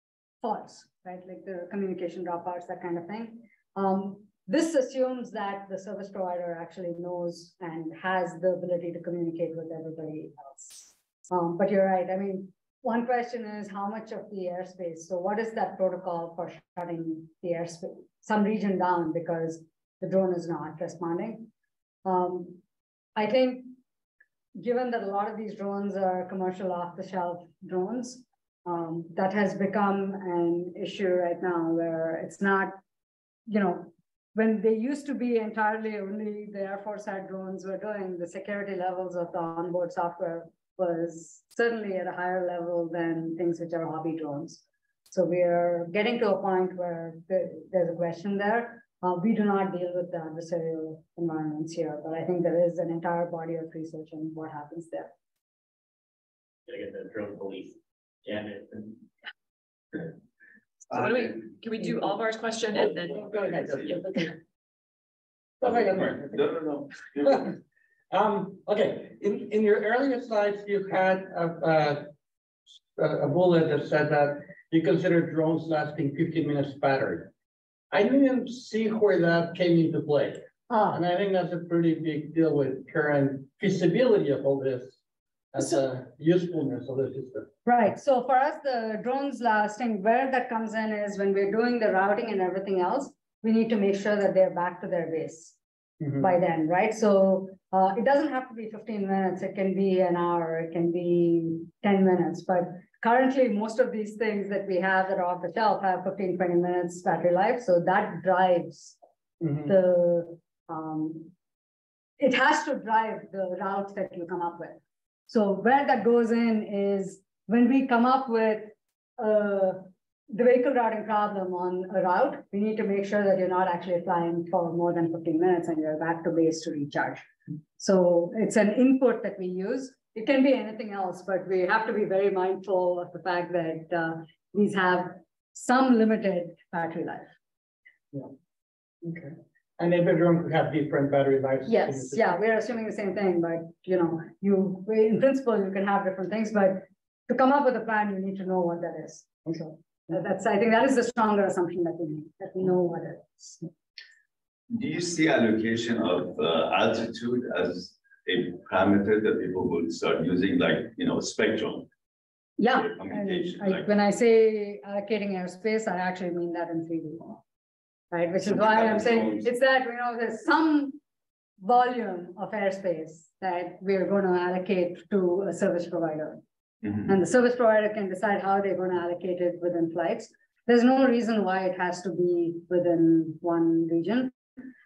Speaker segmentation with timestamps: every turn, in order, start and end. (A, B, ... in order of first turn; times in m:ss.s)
0:00.4-0:21.5 A
0:22.0-0:22.6 A
0:23.2-0:23.8 A
0:24.6-0:32.8 A
0:33.5-0:55.1 A
0:56.7-0:59.0 B
1:00.9-1:04.1 C
1:03.1-1:04.3 D
1:05.6-1:06.4 D
1:05.6-1:07.5 E
1:07.2-1:07.5 D
1:08.1-1:12.1 D
1:13.0-1:17.3 D
1:17.9-1:25.0 D
1:20.7-1:21.0 A
1:25.5-1:27.5 D
1:27.7-1:35.6 A
1:36.2-1:49.0 A
1:49.4-1:49.7 D
1:49.7-1:51.3 A
1:52.2-2:17.3 A
2:19.0-2:22.4 D
2:21.7-2:29.4 A
2:29.5-2:29.7 D
2:30.1-2:33.7 A
2:34.7-2:41.9 E
2:42.6-2:47.4 A
2:42.7-2:43.9 E
2:48.1-2:51.0 A
2:48.4-2:49.5 E
2:51.6-2:56.4 A
2:57.1-3:04.3 A